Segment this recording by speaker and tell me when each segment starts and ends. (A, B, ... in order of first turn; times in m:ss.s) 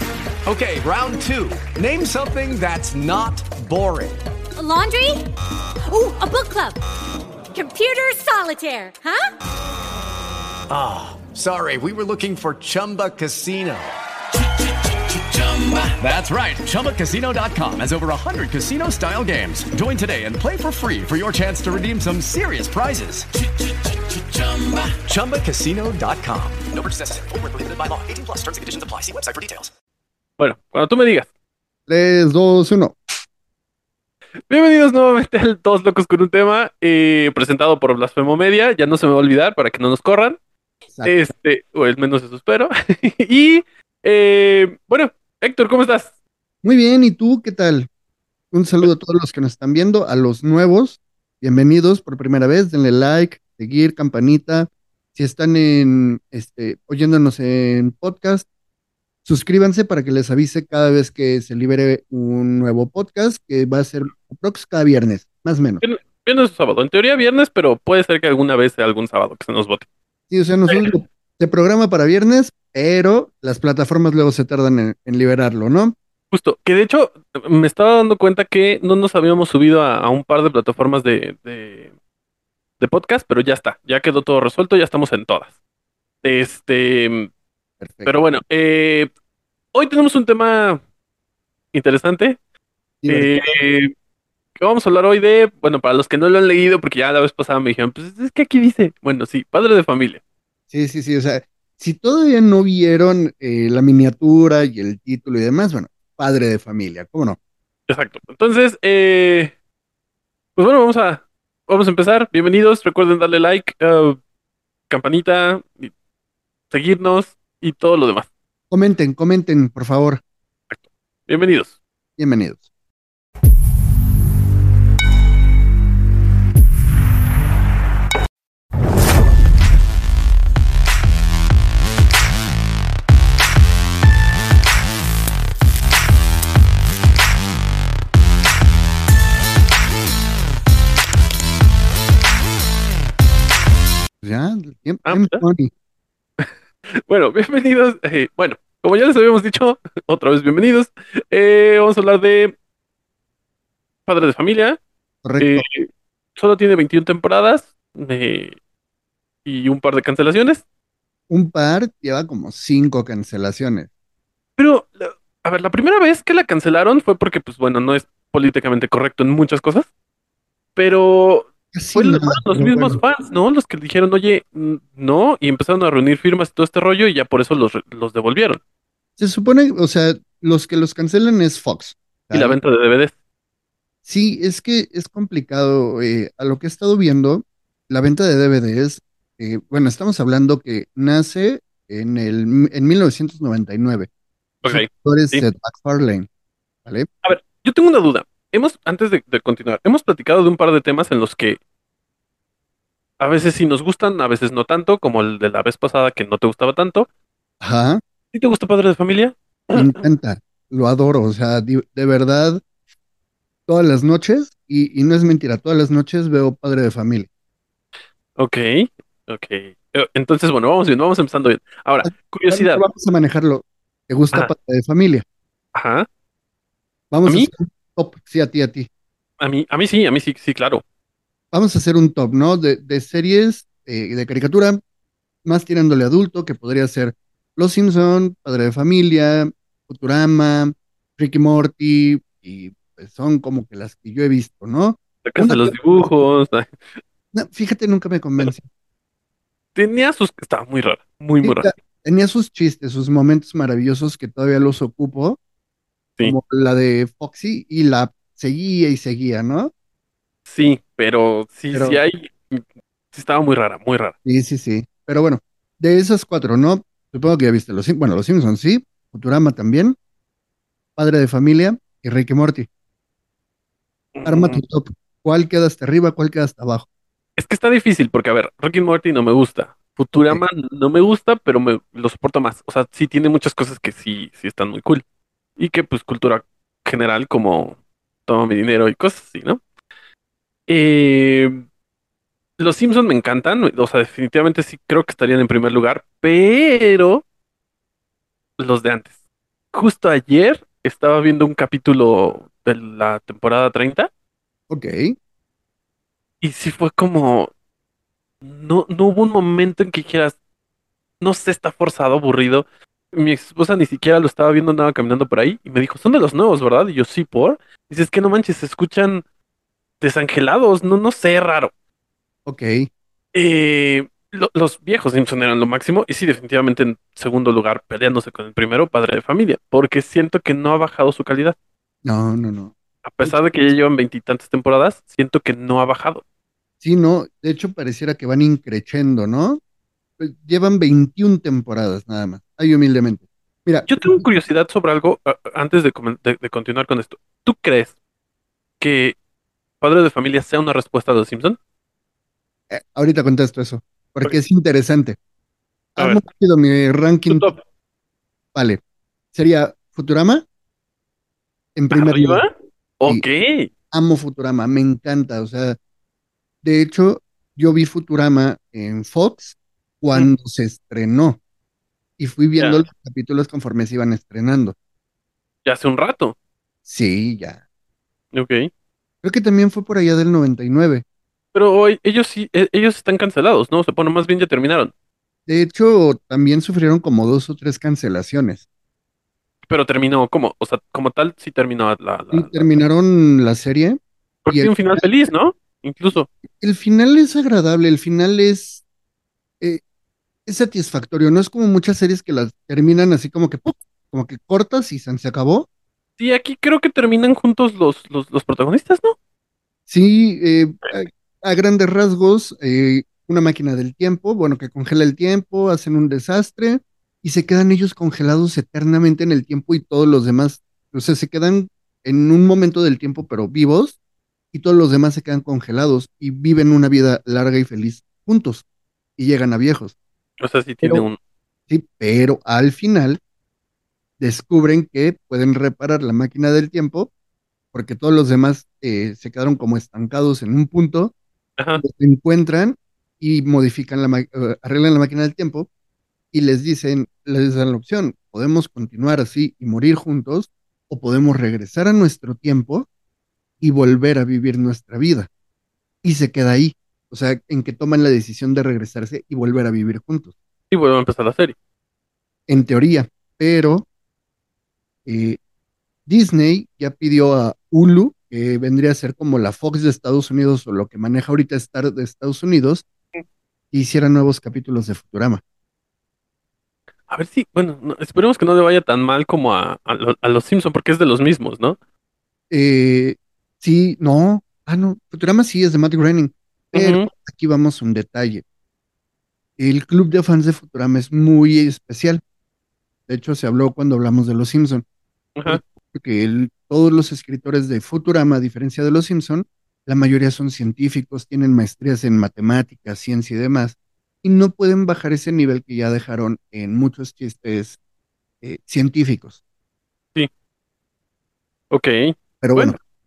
0:00.4-0:04.2 A
0:04.6-0:05.2 B
0:05.9-0:06.8 B
0:07.5-0:09.2 B
0:10.7-0:13.9 A
0:15.4-0:23.3 A
0:24.3-0:29.7 A
0:30.4-0:31.3 C
0:31.9-0:33.0 D
0:34.5-0:40.4 C
0:41.0-0:46.1 C
0:46.6-0:47.9 D
0:48.5-0:58.5 D
0:59.2-1:05.8 D
1:05.8-1:09.8 C
1:10.3-1:15.9 D
1:16.3-1:21.9 C
1:22.8-1:25.5 C
1:26.2-1:27.3 C
1:27.8-1:28.1 D
1:28.0-1:29.1 C
1:29.7-1:30.8 C
1:31.7-1:32.4 C
1:33.0-1:33.6 D
1:33.1-1:33.9 C
1:34.6-1:40.2 C
1:40.7-1:47.4 D
1:47.9-1:49.5 C
1:50.6-1:54.2 C
1:54.9-1:55.9 C
1:56.7-1:58.3 C
1:58.7-2:00.2 D
2:00.7-2:01.8 C
2:02.2-2:02.6 D
2:24.2-2:25.7 D
2:25.0-2:25.4 C
2:26.4-2:32.5 C
2:34.1-2:34.8 C
2:35.2-2:35.6 D
2:35.4-2:38.6 C
2:39.4-2:40.6 C
2:41.3-2:43.9 D
2:44.6-2:49.9 C
2:50.8-2:58.6 C
2:51.7-2:53.0 D
2:59.2-3:02.6 D
3:02.3-3:03.1 C
3:04.0-3:14.1 D
3:14.6-3:15.4 C
3:14.6-3:16.3 D
3:17.2-3:21.6 C
3:23.2-3:27.1 C
3:27.6-3:28.0 D
3:28.3-3:30.0 C
3:29.8-3:32.6 D
3:33.7-3:37.3 D
3:38.4-3:42.8 C
3:42.0-3:45.2 D
3:45.7-3:46.1 C
3:47.1-3:48.9 D
3:47.2-3:47.5 C
3:49.4-3:50.8 C
3:51.5-3:54.8 D
3:55.4-4:05.7 D
4:05.2-4:06.8 C
4:07.3-4:08.6 D
4:09.7-4:11.7 C
4:11.4-4:15.4 D
4:16.2-4:19.7 D
4:20.5-4:24.1 C
4:21.7-4:22.0 D
4:24.2-4:30.0 D
4:31.0-4:32.7 D
4:34.2-4:34.6 C
4:34.2-4:36.9 D
4:37.4-4:45.0 C
4:40.2-4:40.4 D
4:45.6-4:49.6 C
4:50.7-4:51.6 C
4:52.6-4:57.2 C
4:58.6-4:59.1 C
4:59.7-5:04.1 C
5:04.7-5:05.1 D
5:06.4-5:07.5 C
5:08.4-5:10.3 C
5:11.2-5:19.2 C
5:20.0-5:21.7 C
5:22.4-5:22.9 D
5:23.3-5:31.6 C
5:32.0-5:33.7 D
5:33.0-5:36.2 C
5:36.8-5:39.6 D
5:40.2-5:44.2 D
5:43.9-5:47.9 C
5:48.8-5:49.2 C
5:49.8-5:51.6 C
5:52.7-5:55.2 D
5:56.0-5:57.5 D
5:57.3-5:57.6 C
5:58.5-5:58.8 D
5:59.3-6:00.4 D
6:01.7-6:02.4 D
6:01.9-6:02.5 C
6:03.0-6:03.7 C
6:03.9-6:05.8 D
6:06.6-6:11.4 D
6:12.2-6:14.7 D
6:12.6-6:12.8 C
6:15.6-6:16.3 C
6:16.8-6:17.6 D
6:18.3-6:18.7 C
6:19.2-6:21.0 D
6:21.5-6:24.9 C
6:25.5-6:28.6 D
6:29.7-6:32.7 C
6:32.3-6:35.1 D
6:34.4-6:36.3 C
6:36.5-6:38.8 D
6:40.4-6:45.7 D
6:46.2-6:49.2 C
6:49.9-7:04.0 D
7:04.5-7:08.6 D
7:09.2-7:09.9 D
7:10.4-7:11.2 C
7:11.7-7:13.2 D
7:14.2-7:17.1 D
7:17.7-7:21.1 D
7:21.6-7:21.8 C
7:21.8-7:25.7 D
7:26.3-7:32.9 D
7:33.6-7:35.3 D
7:36.0-7:40.3 D
7:40.7-7:41.5 C
7:42.5-7:43.8 D
7:45.0-7:45.4 D
7:46.1-7:52.8 D
7:53.7-7:55.4 D
7:57.1-8:01.8 C
8:02.5-8:08.4 D
8:06.7-8:07.1 C
8:09.6-8:12.2 D
8:13.1-8:14.8 D
8:15.4-8:27.8 D
8:28.4-8:29.4 D
8:31.7-8:32.8 C
8:32.4-8:32.8 D